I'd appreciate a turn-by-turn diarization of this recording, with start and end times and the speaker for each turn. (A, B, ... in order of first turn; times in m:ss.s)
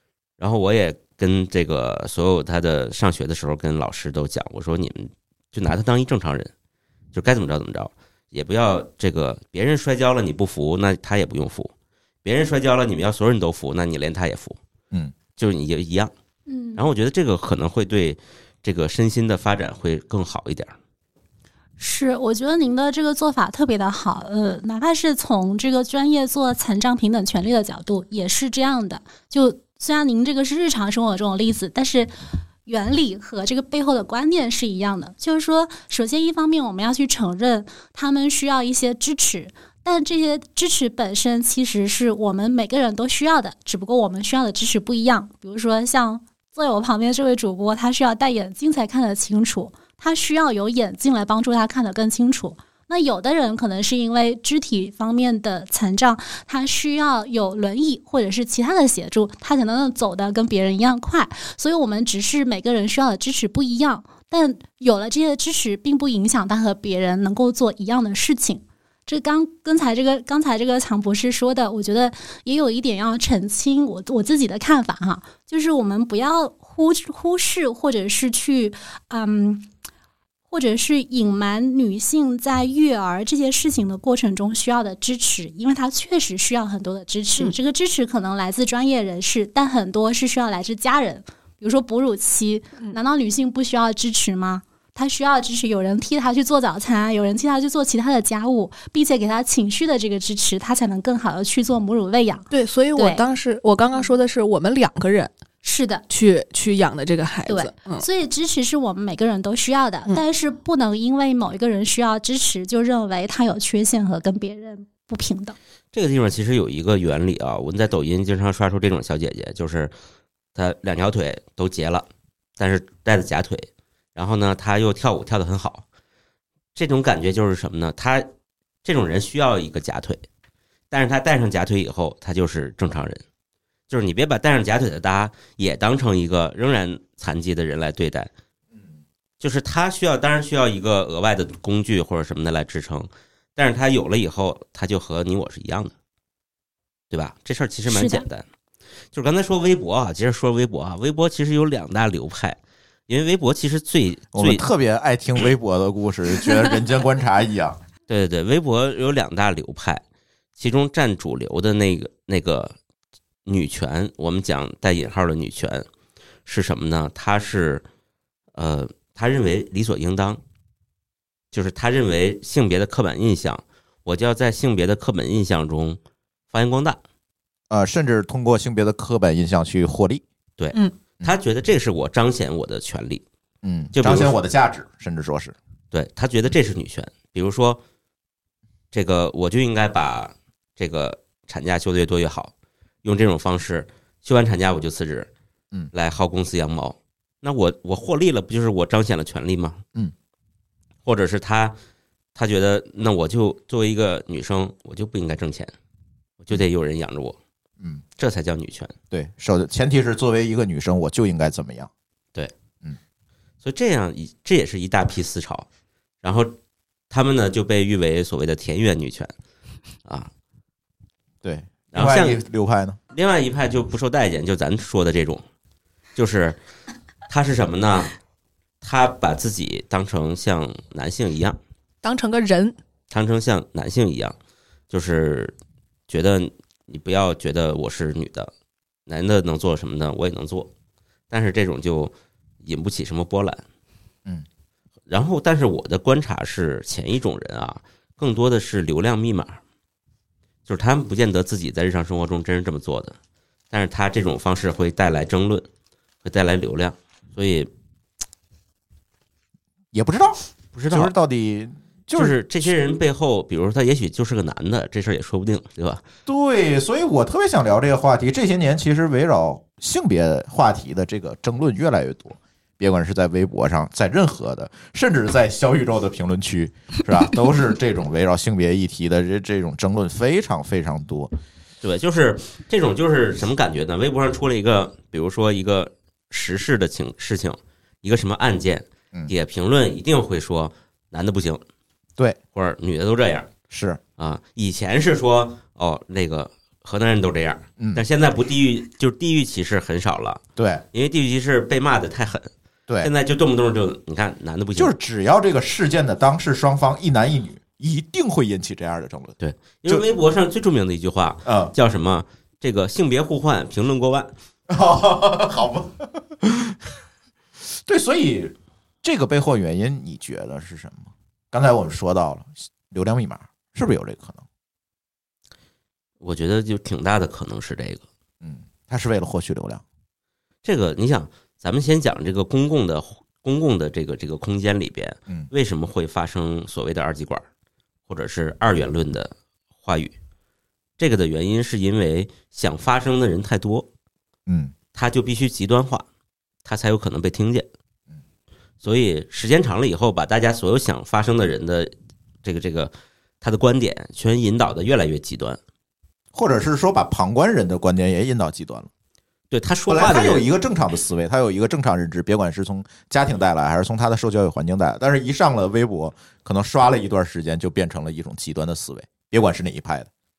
0:00.4-0:06.5 A
0:07.1-0:11.7 A
0:12.2-0:14.6 A
0:15.4-0:16.1 A
0:16.5-0:16.8 B
0:16.7-0:20.7 A
0:21.8-0:32.1 B
0:32.6-1:19.7 B
1:20.5-1:43.2 B
1:42.5-1:45.3 C
1:45.6-1:46.0 B
1:46.1-1:48.0 C
1:47.4-1:55.6 B
1:55.9-1:59.9 A
2:00.5-2:02.1 A
2:02.6-2:05.8 A
2:06.7-2:08.3 A
2:08.8-2:10.2 A
2:10.9-2:13.2 A
2:13.9-2:18.3 A
2:19.4-2:25.9 A
2:27.1-2:28.4 A
2:27.9-2:28.2 B
2:29.1-2:34.7 A
2:34.3-2:37.8 D
2:38.1-2:40.0 A
2:40.6-2:42.7 A
2:43.4-2:45.8 A
2:46.4-2:47.8 A
2:48.5-2:50.4 A
2:51.5-2:56.0 A
2:56.5-2:57.0 A
2:57.7-3:00.2 D
3:00.6-3:03.2 A
3:03.6-3:05.5 D
3:03.9-3:04.3 A
3:05.9-3:07.8 A
3:08.9-3:12.5 A
3:13.0-3:15.3 A
3:15.9-3:19.8 A
3:21.0-3:21.7 A
3:22.3-3:25.7 A
3:26.4-3:27.4 A
3:28.2-3:28.9 A
3:29.1-3:31.9 D
3:33.6-3:35.6 A
3:36.2-3:36.5 A
3:37.1-3:39.3 A
3:40.0-3:40.3 A
3:41.4-3:43.0 D
3:41.9-3:42.4 A
3:43.1-3:45.4 A
3:46.2-3:46.6 A
3:47.3-3:48.1 A
3:48.8-3:51.6 A
3:52.0-3:52.8 C
3:53.1-3:54.4 A
3:54.9-3:55.5 A
3:56.1-3:58.5 A
3:59.1-4:00.7 A
4:01.3-4:02.1 A
4:02.6-4:03.6 A
4:05.1-4:09.6 A
4:10.7-4:13.2 A
4:13.7-4:15.7 A
4:16.2-4:17.7 A
4:19.9-4:22.4 D
4:20.7-4:21.1 A
4:22.1-4:26.0 A
4:26.2-4:41.3 D
4:41.8-4:51.6 A
4:52.5-4:53.5 A
4:53.7-4:54.0 D
4:54.2-5:00.4 A
4:57.8-4:58.0 D
5:00.6-5:00.8 D
5:00.9-5:02.5 A
5:03.0-5:04.9 A
5:04.8-5:10.0 D
5:09.4-5:14.3 A
5:11.4-5:11.7 D
5:14.7-5:16.8 D
5:17.7-5:24.4 D
5:26.2-5:28.0 A
5:28.4-5:29.8 D
5:30.6-5:37.4 A
5:38.1-5:40.1 A
5:41.0-5:43.9 A
5:44.5-5:44.7 D
5:44.9-5:46.0 A
5:46.6-5:47.7 A
5:48.8-5:51.9 A
5:52.4-5:55.6 A
5:56.3-5:58.9 D
5:59.5-6:00.4 A
5:59.9-6:10.1 D